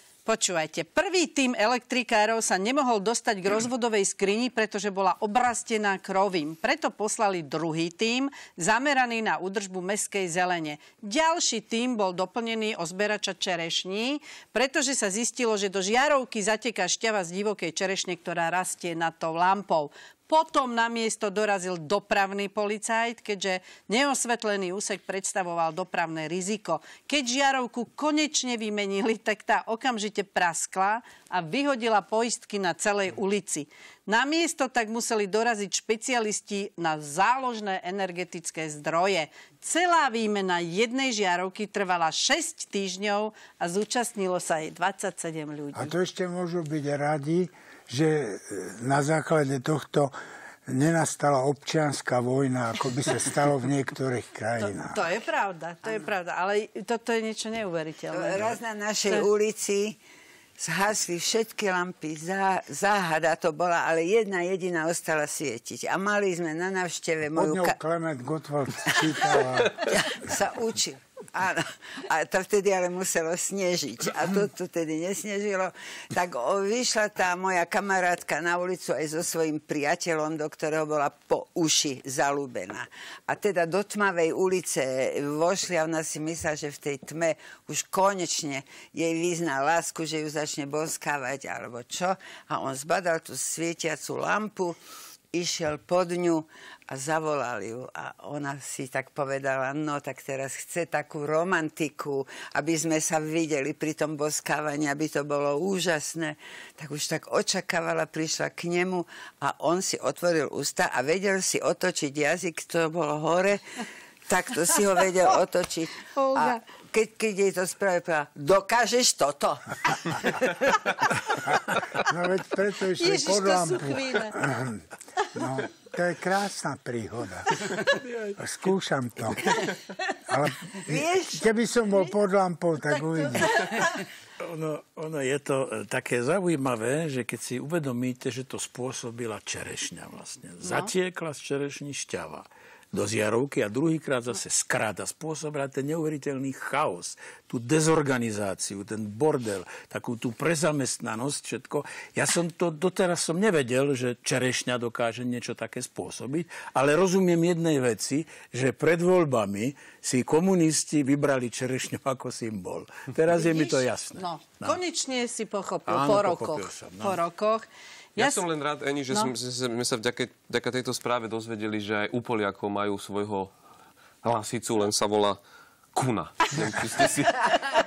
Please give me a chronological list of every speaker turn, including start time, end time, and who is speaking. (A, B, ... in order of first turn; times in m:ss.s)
0:00.2-0:45.9 A
0:45.8-0:50.1 B
0:50.7-0:55.0 B
0:54.6-0:58.6 A
0:58.1-1:00.0 C
1:00.6-1:07.8 C
1:07.4-1:09.8 B
1:08.9-1:34.8 C
1:35.3-1:53.6 C
1:54.3-2:00.6 C
1:56.1-1:56.6 A
2:01.4-2:04.8 B
2:03.0-2:04.4 A
2:05.4-2:07.6 B
2:08.1-2:08.3 D
2:08.4-2:09.6 B
2:10.3-2:13.7 B
2:10.9-2:11.4 C
2:12.9-2:13.8 A
2:14.4-2:44.8 D
2:20.6-2:20.9 A
2:43.3-2:48.4 A
2:45.9-2:47.2 D
2:48.2-2:53.5 E
2:54.2-2:55.4 E
2:55.9-2:57.4 E